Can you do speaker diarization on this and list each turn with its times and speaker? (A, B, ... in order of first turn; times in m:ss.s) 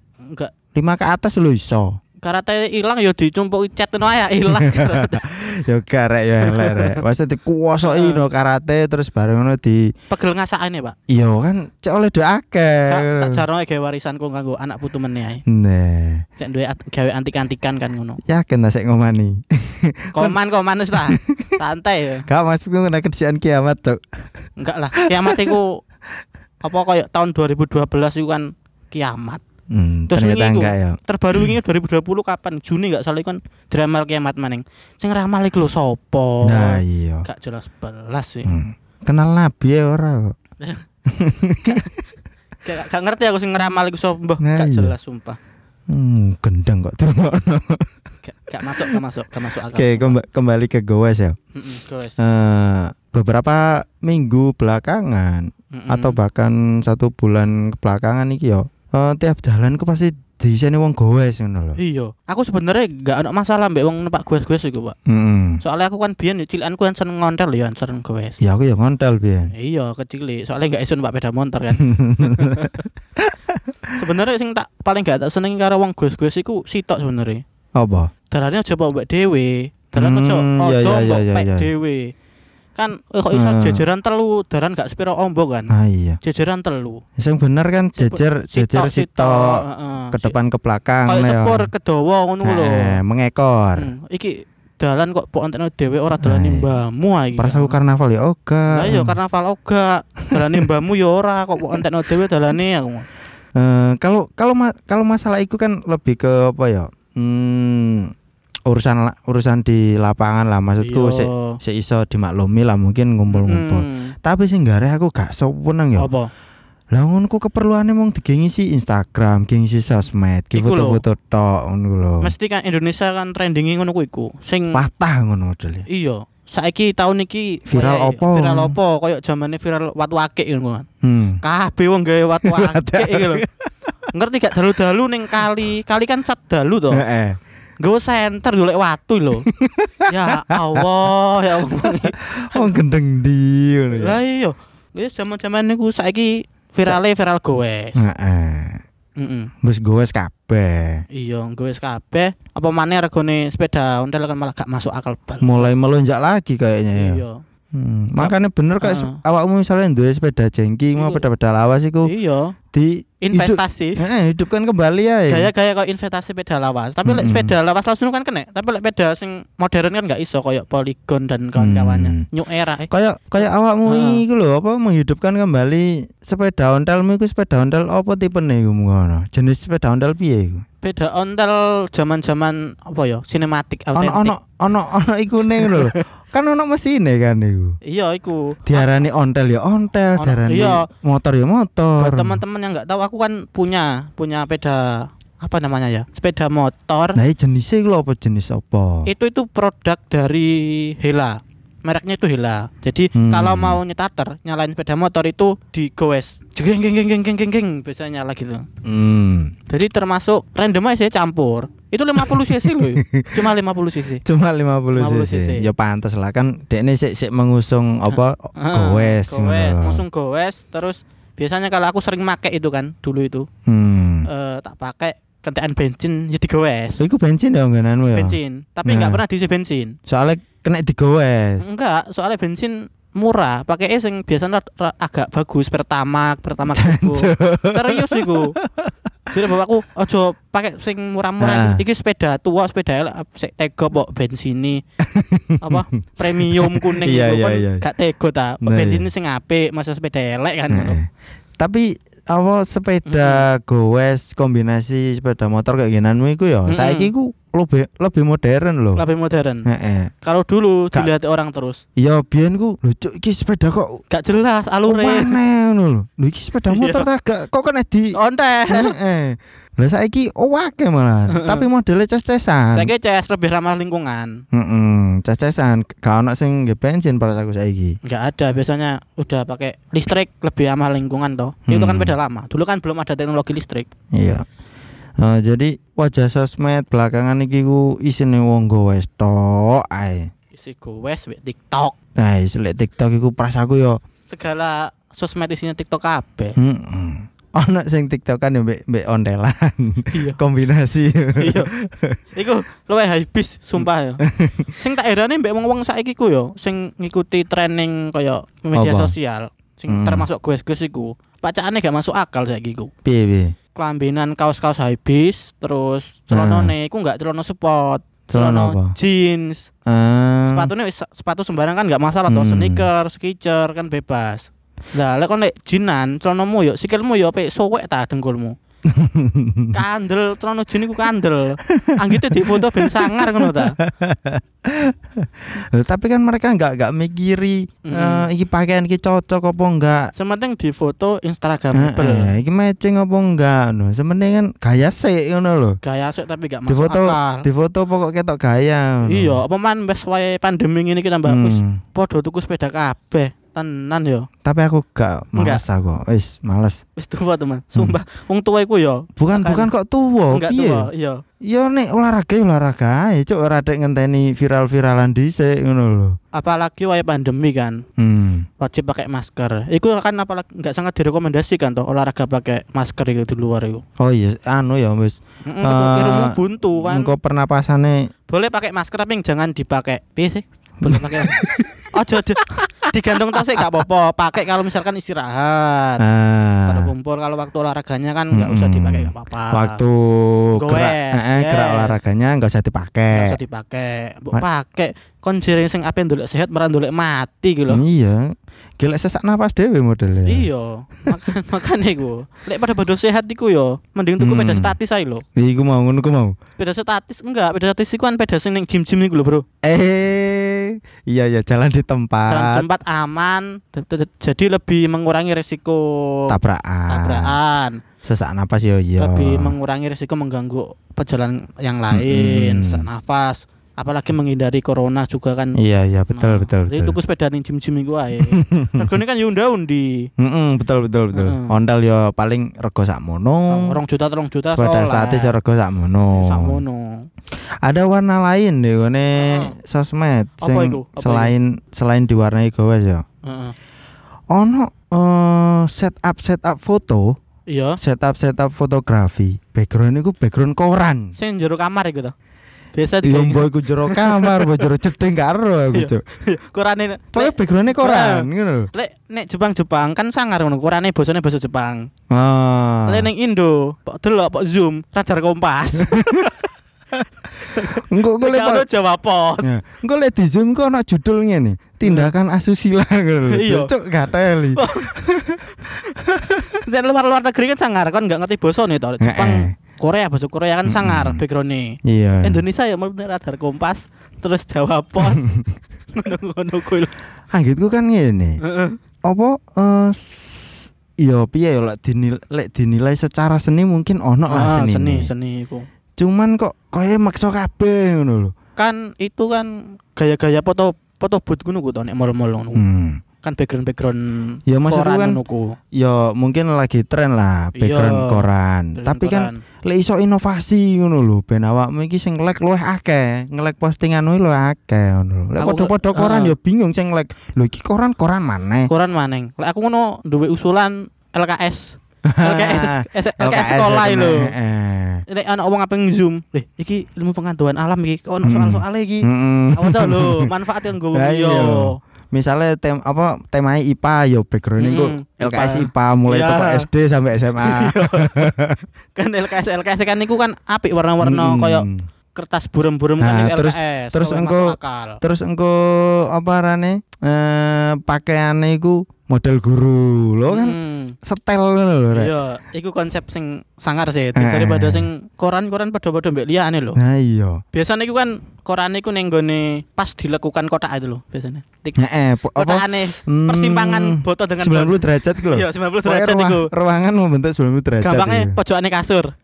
0:00.3-0:00.5 A
0:00.7-0:02.0 B
0:02.2-0:05.4 A
0:04.5-0:09.9 B
0:06.4-0:07.0 A
0:07.8-0:08.3 A
0:10.1-0:11.0 A
0:11.1-0:13.4 B
0:12.9-0:15.4 A
0:15.5-0:16.2 B
0:16.4-0:18.2 A
0:18.2-0:20.4 B
0:20.1-0:22.2 A
0:20.9-0:21.6 B
0:22.3-0:24.3 B
0:24.6-0:25.8 A
0:25.0-0:25.6 B
0:26.6-0:29.4 A
0:29.7-0:31.5 B
0:30.1-0:38.6 A
0:36.4-0:37.3 B
0:38.4-0:40.4 B
0:41.1-0:41.9 B
0:41.6-0:41.9 A
0:42.6-0:45.4 A
0:44.4-0:45.0 B
0:45.9-0:47.9 B
0:48.2-0:50.2 A
0:49.7-0:51.4 B
0:51.6-0:52.2 A
0:52.2-1:01.8 B
0:55.7-0:56.2 A
1:01.8-1:05.0 A
1:05.1-1:05.6 B
1:05.6-1:08.4 A
1:08.4-1:09.5 B
1:09.5-1:12.9 A
1:11.8-1:14.0 B
1:14.0-1:17.4 A
1:17.8-1:18.1 B
1:18.3-1:22.1 A
1:20.0-1:21.7 B
1:22.8-1:27.0 A
1:23.3-1:23.9 B
1:25.7-1:26.2 B
1:27.2-1:31.7 B
1:28.0-1:30.4 A
1:31.1-1:33.0 A
1:32.4-1:33.9 B
1:33.8-1:37.8 A
1:36.2-1:36.8 B
1:37.4-1:39.2 B
1:38.7-1:43.1 A
1:40.4-1:40.6 B
1:43.6-1:48.1 B
1:48.7-1:56.1 B
1:50.8-1:51.6 A
1:53.3-1:54.1 A
1:56.0-1:56.3 A
1:56.9-2:02.3 B
2:00.5-2:01.0 A
2:02.2-2:04.8 A
2:04.7-2:05.9 B
2:05.9-2:10.9 A
2:07.7-2:08.8 B
2:11.0-2:11.4 B
2:11.4-2:13.4 A
2:12.4-2:13.7 B
2:14.1-2:17.0 A
2:16.9-2:17.4 B
2:17.8-2:19.5 A
2:19.5-2:20.8 B
2:20.1-2:22.8 A
2:21.8-2:24.2 B
2:24.0-2:28.0 A
2:28.0-2:28.8 B
2:29.2-2:29.5 A
2:29.6-2:31.0 B
2:31.1-2:35.8 A
2:35.4-2:42.1 B
2:37.0-2:37.4 A
2:38.2-2:39.2 A
2:41.0-2:41.3 A
2:42.0-2:42.6 A
2:42.7-2:45.5 B
2:43.2-2:44.0 A
2:45.3-2:54.2 A
2:47.0-2:47.5 B
2:51.6-2:52.2 B
2:52.9-3:00.6 B
3:00.8-3:04.4 A
3:04.0-3:07.8 B
3:05.5-3:06.0 A
3:07.8-3:09.0 A
3:08.7-3:12.4 B
3:10.2-3:10.8 A
3:12.0-3:17.2 A
3:17.2-3:19.1 B
3:19.1-3:28.7 A
3:23.2-3:23.8 B
3:28.8-3:29.5 B
3:29.7-3:34.2 A
3:32.2-3:33.4 B
3:34.2-3:40.0 B
3:34.9-3:35.7 A
3:38.1-3:43.5 A
3:43.7-3:44.3 B
3:44.2-3:47.0 A
3:47.0-3:49.2 B
3:48.1-3:50.0 A
3:50.1-3:51.7 B
3:51.6-3:58.6 A
3:56.7-3:59.4 B
3:59.3-4:04.8 A
4:01.4-4:01.8 B
4:05.0-4:07.8 B
4:05.6-4:11.0 A
4:08.6-4:09.1 B
4:10.7-4:19.0 B
4:13.0-4:13.5 A
4:16.7-4:17.1 A
4:19.0-4:19.7 A
4:19.7-4:20.1 B
4:20.2-4:21.8 A
4:22.0-4:24.0 B
4:24.1-4:25.4 A
4:24.9-4:28.2 B
4:26.7-4:27.1 A
4:28.1-4:29.0 A
4:28.7-4:32.9 B
4:31.3-4:31.7 A
4:32.7-4:34.4 A
4:34.5-4:38.0 B
4:38.0-4:43.9 A
4:41.7-4:42.2 B
4:44.2-4:44.5 B
4:45.2-4:50.3 B
4:50.5-4:52.0 A
4:52.2-4:54.0 B
4:54.3-4:56.6 A
4:56.6-5:02.2 B
5:00.1-5:00.4 A
5:01.4-5:01.7 A
5:02.4-5:04.2 A
5:03.8-5:04.7 B
5:04.8-5:12.9 A
5:08.7-5:09.2 B
5:09.9-5:10.3 B
5:13.0-5:13.6 B
5:13.8-5:19.7 A
5:16.3-5:16.7 B
5:18.3-5:19.0 B
5:19.9-5:20.7 B
5:20.4-5:28.6 A
5:22.3-5:22.9 B
5:28.9-5:29.8 B
5:29.7-5:33.8 A
5:31.6-5:40.1 B
5:37.9-5:38.3 A
5:40.1-5:42.3 A
5:41.7-5:45.8 B
5:45.8-5:47.5 A
5:46.7-5:49.4 B
5:49.1-5:54.3 A
5:51.2-5:51.8 B
5:54.4-5:56.8 B
5:55.4-5:55.6 A
5:57.0-5:59.7 A
5:59.2-6:00.9 B
6:00.3-6:01.2 A
6:01.4-6:06.2 B
6:06.3-6:07.8 A
6:08.0-6:08.5 B
6:08.6-6:13.8 A
6:14.0-6:18.1 B
6:15.4-6:17.2 A
6:18.3-6:21.4 A
6:20.8-6:21.9 B
6:21.9-6:26.0 A
6:26.0-6:26.9 B
6:26.6-6:29.8 A
6:28.3-6:33.4 B
6:30.6-6:32.0 A
6:33.1-6:37.8 A
6:37.7-6:40.5 B
6:40.3-6:45.2 A
6:44.2-6:44.8 B
6:45.4-6:46.3 B
6:46.6-6:49.5 A
6:49.6-6:52.7 B
6:52.3-6:56.4 A
6:56.3-6:57.4 B
6:56.9-6:57.8 A
6:58.0-6:59.6 B
6:59.0-7:05.6 A
7:01.9-7:02.9 B
7:05.6-7:07.0 B
7:06.1-7:10.1 A
7:08.3-7:08.9 B
7:10.2-7:13.8 B
7:11.1-7:11.6 A
7:13.5-7:15.4 A
7:14.5-7:16.6 B
7:16.1-7:17.1 A
7:17.4-7:23.0 B
7:19.2-7:19.6 A
7:20.4-7:21.3 A
7:23.2-7:23.6 A
7:24.3-7:27.2 B
7:27.5-7:27.8 A
7:27.8-7:31.2 B
7:31.2-7:32.1 A
7:32.8-7:34.7 A
7:33.0-7:36.0 B
7:35.7-7:41.9 A
7:37.1-7:38.7 B
7:42.1-7:43.1 B
7:42.9-7:46.4 A
7:45.8-7:46.3 B
7:47.4-7:49.5 A
7:47.7-7:48.7 B
7:49.4-7:56.4 B
7:51.8-7:52.1 A
7:53.3-7:53.7 A
7:54.6-7:55.0 A
7:55.6-8:05.3 A
7:59.0-7:59.5 B
8:00.7-8:01.2 B
8:01.8-8:02.4 B
8:05.0-8:05.4 B
8:05.9-8:06.9 A
8:07.3-8:08.4 B
8:08.4-8:08.8 A
8:09.1-8:15.1 B
8:14.3-8:15.7 A
8:16.0-8:18.3 B
8:18.6-8:22.6 A
8:22.6-8:23.0 B
8:23.2-8:25.6 A
8:24.5-8:25.2 B
8:25.7-8:38.7 B
8:27.6-8:29.4 A
8:35.4-8:36.4 A
8:38.7-8:44.3 A
8:42.0-8:45.0 B
8:45.1-8:51.8 A
8:48.2-8:50.3 B
8:50.9-8:58.6 B
8:54.6-8:56.7 A
8:57.4-8:58.3 A
8:59.0-9:05.0 A
9:01.0-9:01.9 B
9:03.0-9:12.1 B
9:10.3-9:11.0 A
9:11.9-9:16.8 A
9:14.2-9:14.9 B
9:16.8-9:17.4 B
9:17.5-9:21.8 A
9:21.8-9:28.4 B
9:22.3-9:26.5 A
9:27.8-9:29.1 A